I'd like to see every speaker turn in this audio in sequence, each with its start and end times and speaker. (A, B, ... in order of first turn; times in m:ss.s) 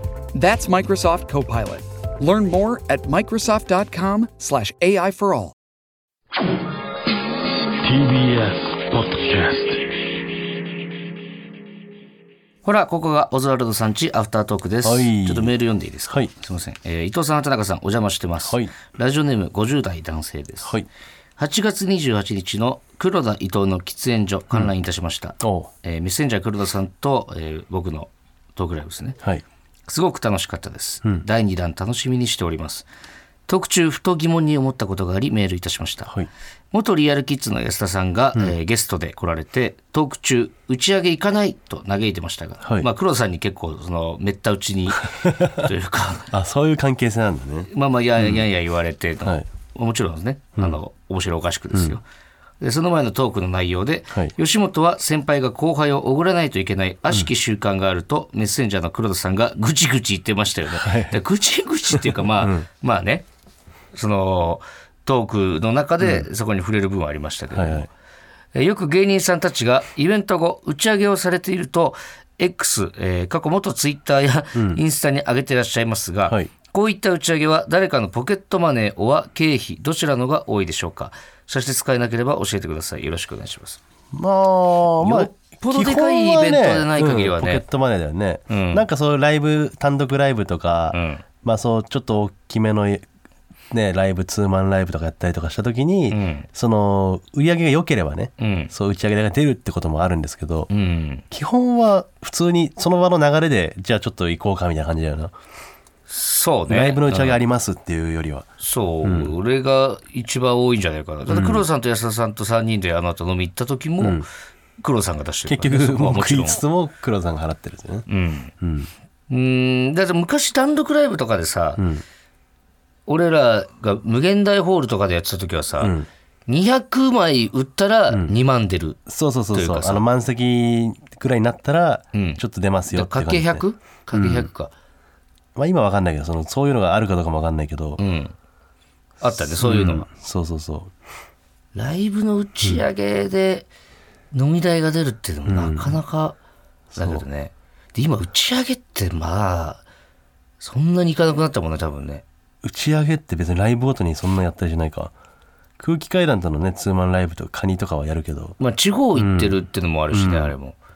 0:00.3-0:05.5 A
0:12.6-0:20.8 B
0:14.8-0:15.6 C
0:16.1-0:16.3 C
0:18.4-0:18.7 C
0:20.6-0:20.9 C
0:21.4-0:29.2 B
0:25.4-0:25.7 C
0:29.9-0:32.9 B
0:33.5-0:36.2 B
0:36.7-0:46.3 B
0:42.6-0:42.9 C
0:45.1-0:45.6 C
0:46.3-0:48.4 C
0:47.7-0:52.0 B
0:51.7-0:52.0 C
0:52.6-1:03.3 B
1:00.7-1:01.2 C
1:01.9-1:02.7 C
1:03.9-1:07.9 B
1:06.0-1:06.3 C
1:07.5-1:07.9 C
1:08.6-1:23.8 B
1:14.5-1:14.8 C
1:24.1-1:33.1 C
1:25.0-1:27.6 B
1:28.5-1:28.8 B
1:30.9-1:31.2 B
1:33.7-1:40.7 C
1:36.1-1:36.5 B
1:38.4-1:38.7 B
1:40.7-1:41.2 B
1:41.3-1:45.3 C
1:46.1-1:47.4 B
1:46.7-1:48.5 C
1:48.6-1:54.3 B
1:49.0-1:49.4 C
1:51.3-1:51.6 C
1:54.0-1:54.3 C
1:54.8-1:56.6 B
1:55.5-1:58.1 C
1:58.1-1:58.5 B
1:58.6-1:58.9 C
1:59.3-2:01.8 B
2:01.8-2:02.0 C
2:03.1-2:09.0 B
2:05.8-2:06.1 C
2:09.1-2:14.5 C
2:09.5-2:10.0 B
2:12.1-2:14.7 B
2:15.6-2:18.0 C
2:18.0-2:18.4 B
2:19.2-2:20.1 B
2:19.3-2:20.9 C
2:21.7-2:23.7 B
2:24.3-2:26.4 B
2:25.5-2:26.0 C
2:26.9-2:27.2 C
2:27.0-2:29.8 B
2:30.6-2:32.2 B
2:32.6-2:35.1 C
2:35.8-2:38.6 C
2:38.6-2:40.8 B
2:39.2-2:40.6 C